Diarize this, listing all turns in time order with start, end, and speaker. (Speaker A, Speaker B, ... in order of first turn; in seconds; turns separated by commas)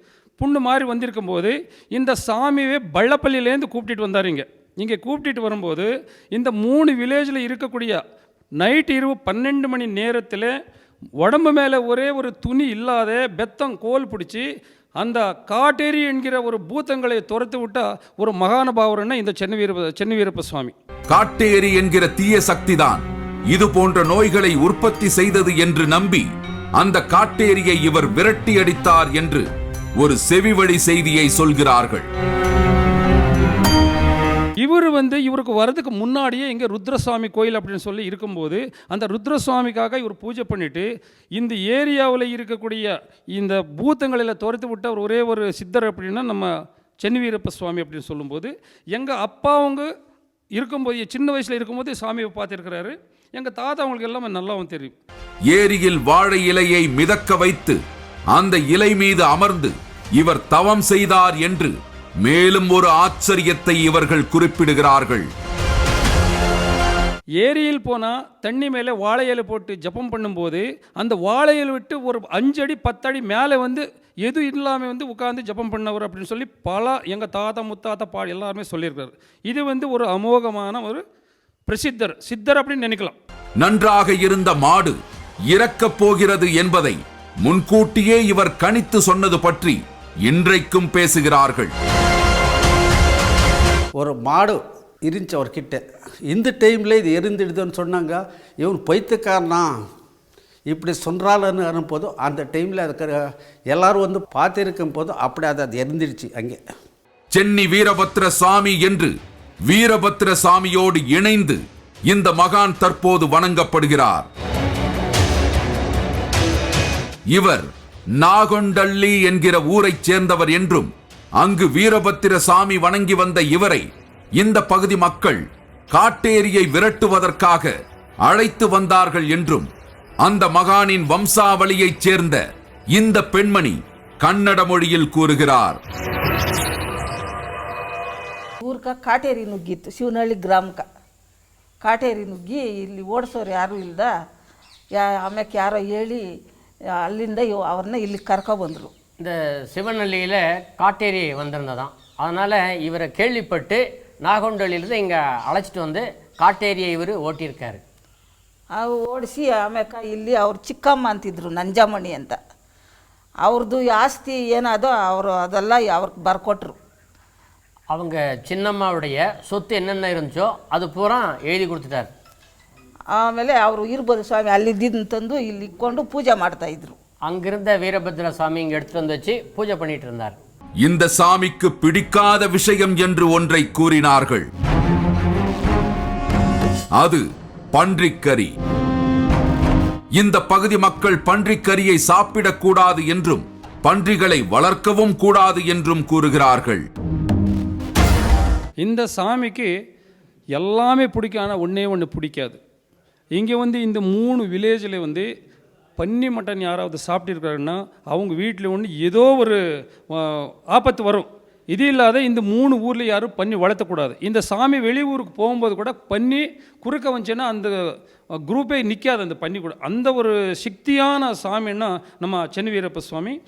Speaker A: 0.4-8.0, Speaker A: 8.6-10.5, Speaker A: 11.2-14.5, Speaker A: 15.0-20.7, Speaker B: 21.1-29.4, Speaker B: 30.0-32.1, Speaker A: 34.6-46.5, Speaker A: 47.0-49.9, Speaker A: 50.6-55.0, Speaker B: 55.5-57.8, Speaker B: 58.3-65.3, Speaker A: 67.4-81.0, Speaker A: 81.7-83.2, Speaker B: 83.6-85.0, Speaker B: 85.5-91.7, Speaker C: 94.0-99.7, Speaker C: 100.7-106.6, Speaker B: 107.3-109.1, Speaker B: 109.7-114.3, Speaker B: 117.3-123.8, Speaker B: 124.4-127.7, Speaker B: 128.2-129.7, Speaker B: 130.2-132.4, Speaker B: 132.9-135.8, Speaker D: 138.6-140.9, Speaker D: 141.8-144.1, Speaker D: 144.9-146.2, Speaker D: 147.0-148.9, Speaker E: 149.2-157.8, Speaker D: 158.7-162.4, Speaker D: 163.4-166.8, Speaker E: 167.9-172.1, Speaker D: 173.1-177.0, Speaker E: 177.3-180.4, Speaker B: 180.8-184.5, Speaker B: 186.9-188.6, Speaker B: 190.2-196.9, Speaker A: 198.8-199.7, Speaker A: 200.6-202.6, Speaker A: 203.3-205.3, Speaker A: 206.0-209.6, Speaker A: 210.1-217.7, Speaker A: 218.5-223.4